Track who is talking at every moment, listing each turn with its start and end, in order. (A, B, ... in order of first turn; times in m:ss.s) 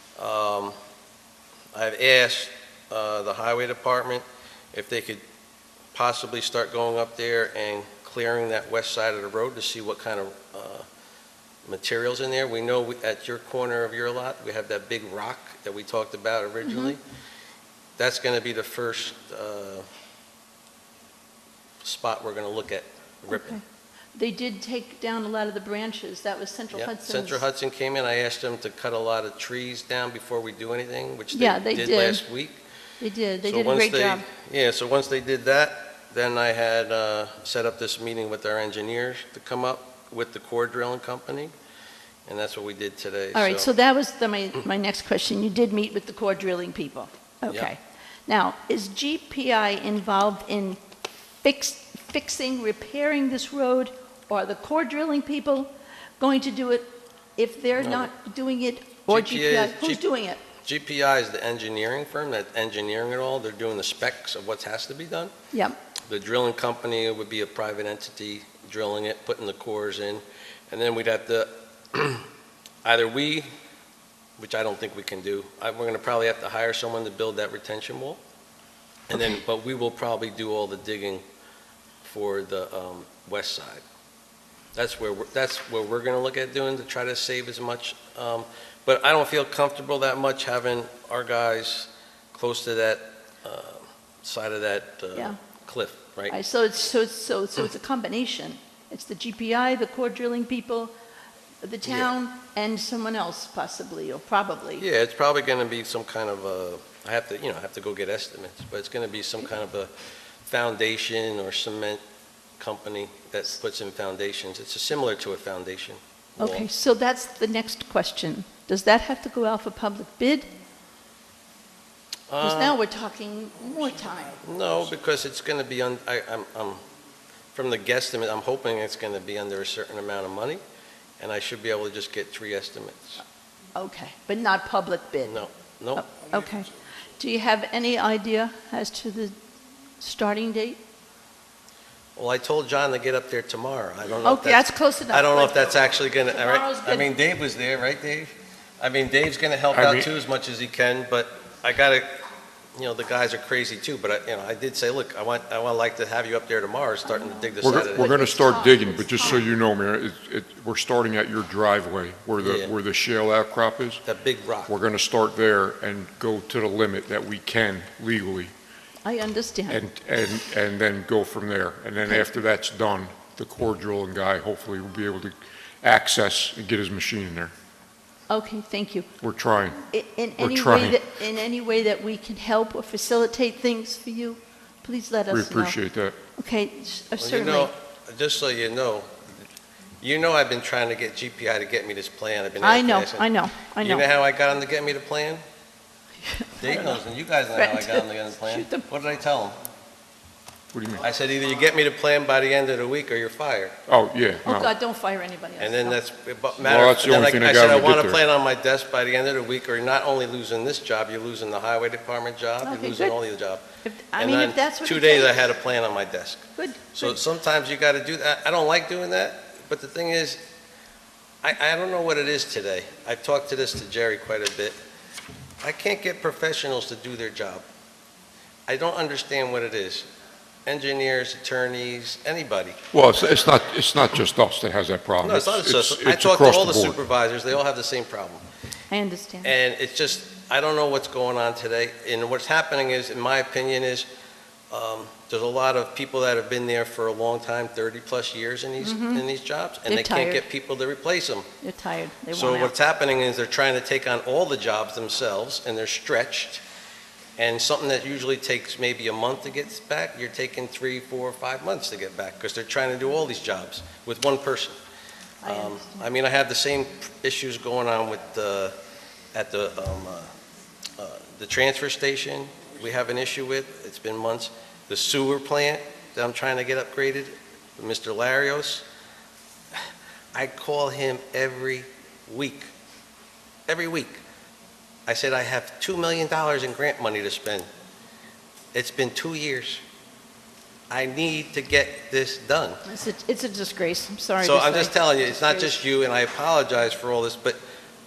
0:00.2-0:00.7 A
0:01.7-0:05.2 A
0:05.9-0:10.8 A
0:11.6-0:17.0 A
0:16.6-0:16.9 B
0:18.0-0:19.8 A
0:21.8-0:23.6 A
0:23.3-0:23.6 B
0:24.1-0:27.4 B
0:26.7-0:32.6 A
0:31.3-0:32.2 B
0:33.0-0:34.2 B
0:33.4-0:41.5 A
0:42.3-0:43.7 A
0:43.3-0:50.8 B
0:51.4-1:00.4 B
0:57.8-0:58.1 A
0:59.1-1:00.0 A
1:00.6-1:05.3 A
1:05.5-1:05.8 B
1:06.1-1:12.3 A
1:12.8-1:13.5 A
1:14.4-1:18.2 A
1:19.1-1:21.2 A
1:22.0-1:23.8 A
1:24.7-1:36.4 A
1:36.3-1:40.9 B
1:41.6-1:44.8 B
1:41.8-1:42.1 A
1:44.8-1:52.0 A
1:52.6-1:56.7 A
1:56.4-2:00.5 B
2:02.3-2:02.8 A
2:02.4-2:04.4 B
2:04.4-2:06.8 A
2:07.5-2:10.6 A
2:11.2-2:13.2 A
2:13.7-2:15.4 B
2:15.2-2:16.1 A
2:16.0-2:19.3 B
2:20.0-2:20.8 B
2:22.2-2:32.1 A
2:24.2-2:25.6 B
2:26.2-2:27.0 B
2:29.7-2:30.1 C
2:32.7-2:38.4 A
2:37.0-2:39.4 B
2:37.6-2:44.0 C
2:42.4-2:42.7 A
2:44.0-2:44.7 A
2:44.7-2:48.5 C
2:49.0-2:49.8 B
2:49.7-2:57.5 C
2:58.3-2:59.1 B
2:59.2-2:59.8 C
2:59.8-3:05.8 B
3:00.4-3:01.0 C
3:05.3-3:06.2 C
3:06.4-3:07.7 B
3:07.2-3:09.3 A
3:10.0-3:15.4 A
3:12.6-3:14.0 B
3:16.2-3:17.0 B
3:16.6-3:19.6 A
3:17.5-3:18.8 B
3:20.7-3:21.0 C
3:21.0-3:23.8 A
3:23.9-3:24.7 C
3:24.4-3:26.0 B
3:25.6-3:33.6 A
3:26.6-3:28.2 C
3:32.6-3:33.2 B
3:33.8-3:35.4 B
3:34.2-3:40.4 A
3:36.6-3:37.2 B
3:41.4-3:44.8 A
3:45.6-3:47.6 A
3:48.7-3:50.1 A
3:50.6-3:52.8 A
3:52.9-3:57.0 C
3:55.2-3:58.4 A
3:58.9-3:59.5 B
3:59.4-4:04.1 A
4:04.7-4:11.5 A
4:08.8-4:09.2 B
4:09.8-4:10.4 B
4:11.6-4:12.7 B
4:12.3-4:16.6 A
4:17.4-4:24.8 A
4:25.4-4:26.1 B
4:25.4-4:28.7 A
4:29.3-4:30.3 A
4:31.0-4:38.8 A
4:40.3-4:42.7 A
4:43.7-4:44.2 A
4:45.1-4:47.7 A
4:48.7-4:49.8 A
4:50.9-4:52.8 A
4:52.8-4:55.8 B
4:54.4-4:57.6 A